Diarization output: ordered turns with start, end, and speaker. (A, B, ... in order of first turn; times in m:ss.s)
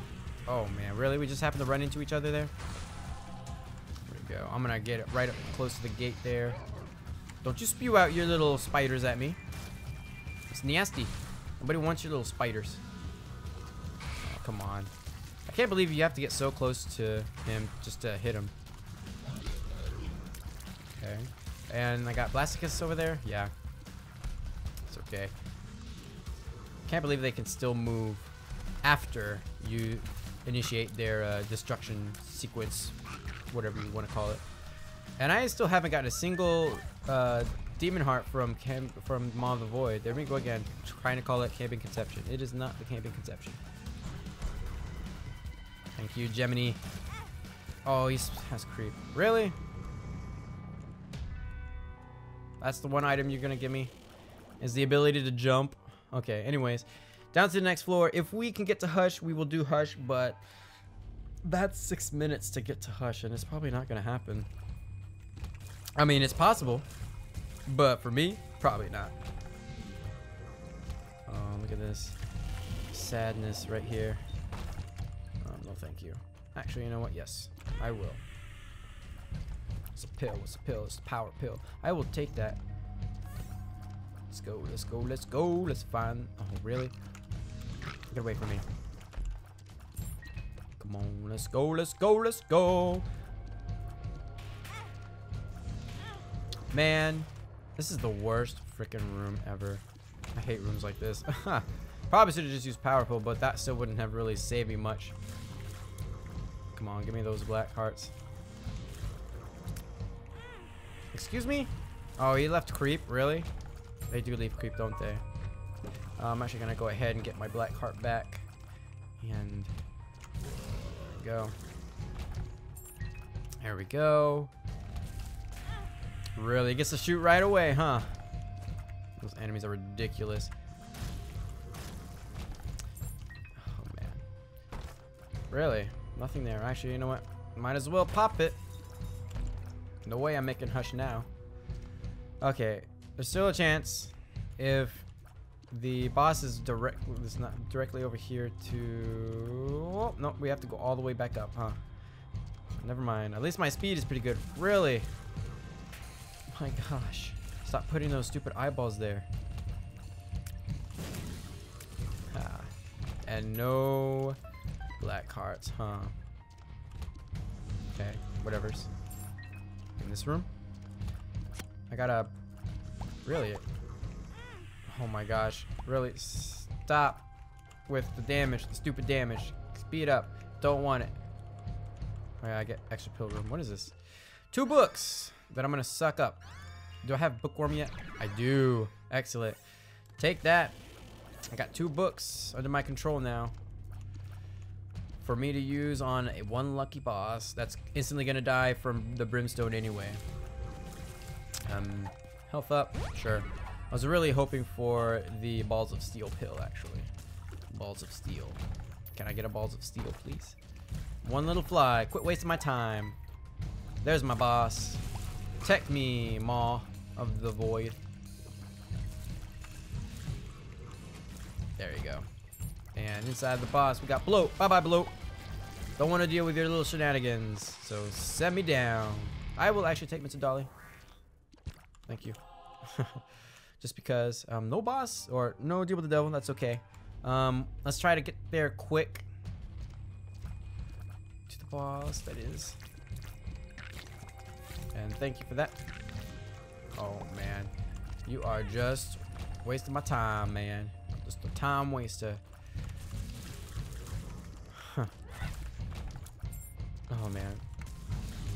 0:00.5-0:02.5 A
0:04.1-0:06.6 A
0:07.4-0:09.4 A
0:10.5-0:12.8 A
0:14.3-0:14.9 A
0:15.5-0:18.5 A
0:21.0-0:23.5 A
0:24.9-0:25.3 A
0:26.9-0:33.0 A
0:33.5-0:34.4 A
0:35.2-0:43.6 A
0:46.0-0:46.8 A
0:47.8-0:49.6 A
0:52.6-0:53.9 A
0:54.6-1:00.4 A
1:01.4-1:04.5 A
1:06.0-1:06.9 A
1:07.7-1:09.1 A
1:11.3-1:12.2 A
1:12.9-1:14.2 A
1:15.4-1:18.2 A
1:20.0-1:22.6 A
1:24.3-1:26.9 A
1:28.1-1:28.6 A
1:30.8-1:33.1 A
1:36.7-1:39.8 A
1:40.4-1:45.2 A
1:46.8-1:48.1 A
1:51.1-1:53.5 A
1:54.1-1:55.2 A
1:56.2-1:58.5 A
1:59.2-1:59.7 A
2:01.1-2:01.6 A
2:03.6-2:04.5 A
2:06.4-2:08.1 A
2:09.2-2:10.5 A
2:13.6-2:14.2 A
2:15.5-2:18.6 A
2:20.0-2:21.3 A
2:22.4-2:25.1 A
2:25.7-2:31.8 A
2:32.7-2:35.1 A
2:36.5-2:39.3 A
2:42.3-2:42.7 A
2:43.2-2:44.4 A
2:45.0-2:46.2 A
2:47.8-2:48.9 A
2:50.0-2:50.5 A
2:51.9-2:52.3 A
2:53.2-2:53.6 A
2:54.9-2:57.2 A
2:57.9-3:01.1 A
3:02.4-3:03.9 A
3:04.5-3:06.4 A
3:07.0-3:09.6 A
3:10.2-3:10.8 A
3:11.5-3:13.6 A
3:15.2-3:20.2 A
3:21.6-3:27.1 A
3:27.7-3:28.6 A
3:29.2-3:30.6 A
3:31.2-3:33.2 A
3:34.0-3:35.0 A
3:35.6-3:38.0 A
3:41.8-3:42.3 A
3:42.9-3:45.1 A
3:46.0-3:50.7 A
3:52.1-3:53.2 A
3:53.8-3:59.3 A
4:01.5-4:02.8 A
4:04.9-4:05.8 A
4:07.0-4:07.7 A
4:08.2-4:12.4 A
4:14.7-4:15.1 A
4:17.1-4:17.6 A